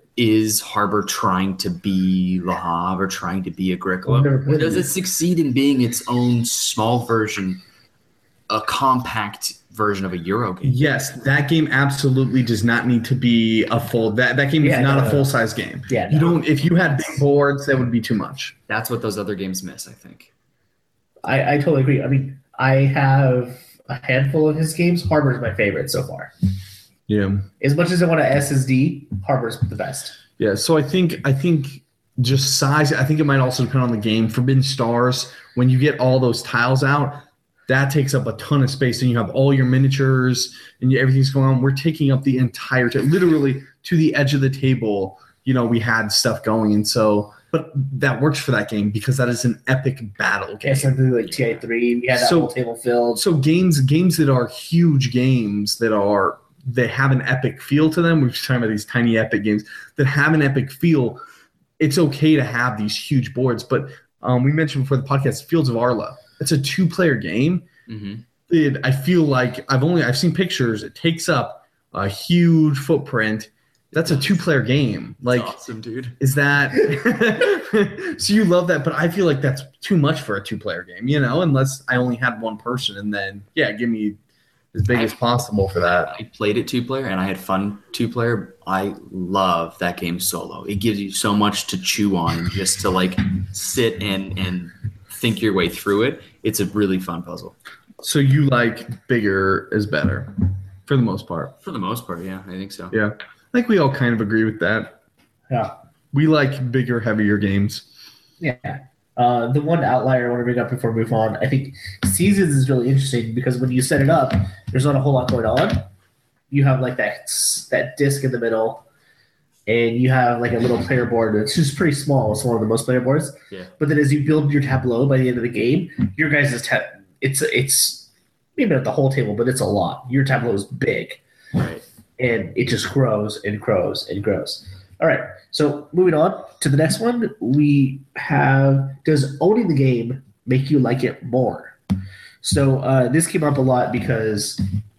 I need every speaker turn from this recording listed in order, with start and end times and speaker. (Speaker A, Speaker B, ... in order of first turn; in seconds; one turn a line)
Speaker A: 0.2-7.6
Speaker B: 4.0-4.9
Speaker A: 8.5-10.9
Speaker C: 10.6-18.6
Speaker B: 14.6-15.4
Speaker B: 15.9-16.4
Speaker A: 16.6-17.1
Speaker A: 18.7-20.3
Speaker B: 21.2-26.3
Speaker C: 27.1-27.5
Speaker B: 27.6-30.2
Speaker C: 30.4-50.9
Speaker B: 50.6-53.2
Speaker A: 51.3-51.6
Speaker C: 52.1-52.5
Speaker C: 53.2-61.2
Speaker C: 61.8-67.7
Speaker A: 67.9-68.2
Speaker C: 68.5-75.6
Speaker A: 73.9-74.5
Speaker A: 75.2-76.2
Speaker C: 76.2-84.2
Speaker C: 84.7-86.1
Speaker A: 84.9-85.2
Speaker A: 86.1-97.6
Speaker C: 98.0-101.6
Speaker A: 101.6-103.0
Speaker C: 102.9-105.0
Speaker C: 106.1-107.9
Speaker B: 108.4-115.9
Speaker B: 116.5-118.8
Speaker B: 119.7-131.2
Speaker A: 131.6-131.8
Speaker B: 132.2-141.7
Speaker B: 142.4-144.6